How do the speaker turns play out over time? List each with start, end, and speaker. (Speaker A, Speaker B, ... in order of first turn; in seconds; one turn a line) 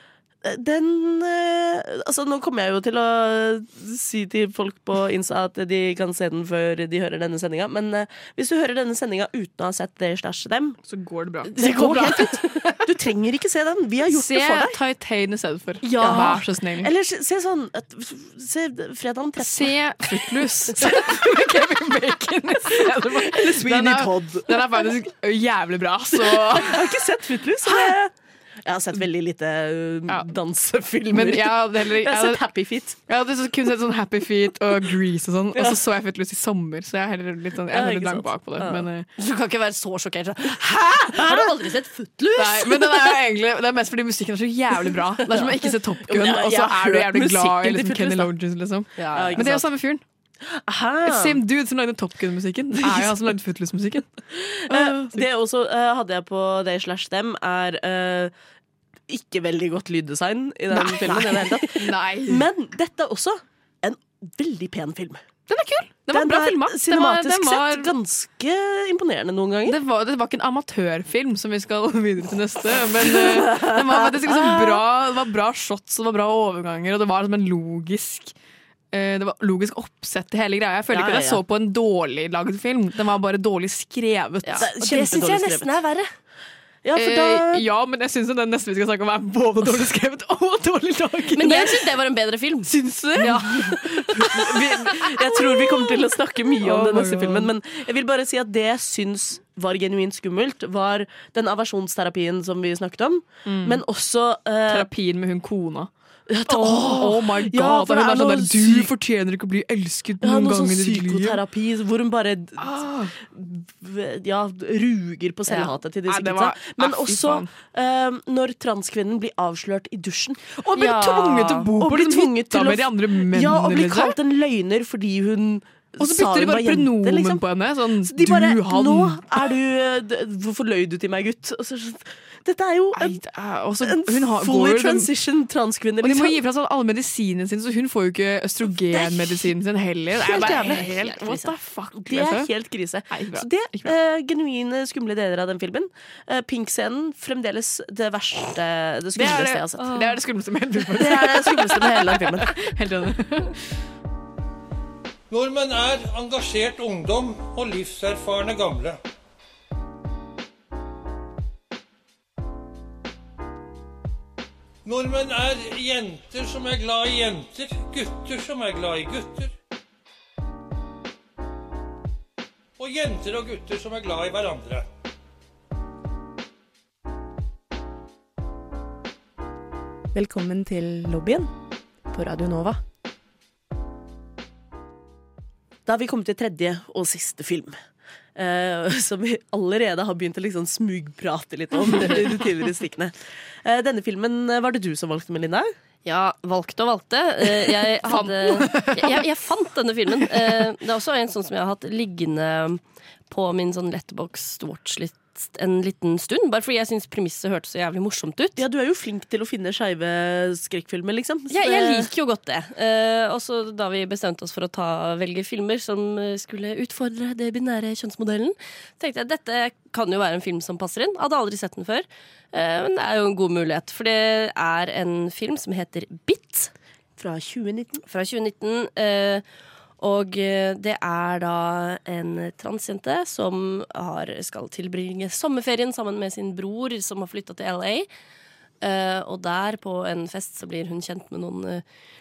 Speaker A: 0.4-10.8
Speaker B: 10.9-12.3
Speaker C: 11.5-12.6
Speaker A: 11.6-14.8
Speaker B: 14.1-16.9
Speaker A: 15.8-19.8
Speaker B: 19.4-27.0
Speaker A: 20.8-21.1
Speaker A: 23.0-24.6
Speaker A: 26.1-28.1
Speaker B: 27.6-27.9
Speaker A: 28.6-33.0
Speaker B: 31.1-32.4
Speaker B: 33.1-39.1
Speaker A: 37.7-38.9
Speaker C: 39.2-42.9
Speaker A: 41.2-41.5
Speaker B: 42.4-50.0
Speaker A: 46.1-48.3
Speaker C: 49.0-49.5
Speaker A: 49.1-49.7
Speaker A: 50.5-51.4
Speaker B: 51.0-54.1
Speaker A: 52.8-53.2
Speaker A: 54.4-58.3
Speaker B: 54.7-55.2
Speaker A: 59.1-65.2
Speaker B: 60.7-62.5
Speaker B: 65.5-67.9
Speaker A: 66.1-69.8
Speaker B: 69.7-78.3
Speaker A: 73.0-74.8
Speaker B: 78.9-84.7
Speaker A: 80.9-81.4
Speaker C: 84.4-86.1
Speaker A: 84.6-85.7
Speaker A: 86.8-87.6
Speaker B: 86.9-91.9
Speaker C: 91.3-94.1
Speaker B: 92.6-95.1
Speaker A: 94.2-104.9
Speaker B: 96.6-97.5
Speaker B: 103.5-103.8
Speaker B: 104.7-105.9
Speaker A: 106.3-108.9
Speaker B: 106.5-111.4
Speaker A: 110.2-127.4
Speaker B: 112.6-113.1
Speaker B: 116.1-117.5
Speaker B: 120.6-124.2
Speaker C: 120.8-121.3
Speaker B: 126.0-129.3
Speaker A: 128.0-133.2
Speaker B: 132.9-135.1
Speaker A: 133.8-136.4
Speaker B: 136.0-142.5
Speaker A: 138.9-139.5
Speaker A: 140.2-140.9
Speaker C: 140.3-141.5
Speaker A: 142.0-150.1
Speaker B: 143.1-143.9
Speaker B: 149.2-153.6
Speaker A: 150.9-152.6
Speaker D: 155.3-159.0
Speaker D: 164.8-169.5
Speaker D: 172.8-174.8
Speaker E: 180.1-181.5
Speaker E: 182.1-182.8
Speaker A: 185.8-187.8
Speaker A: 188.3-195.7
Speaker C: 196.0-208.6
Speaker B: 198.0-199.3
Speaker A: 208.6-212.1
Speaker C: 211.5-226.7
Speaker A: 227.2-228.0
Speaker C: 228.0-229.4
Speaker C: 230.0-238.1
Speaker C: 238.8-241.8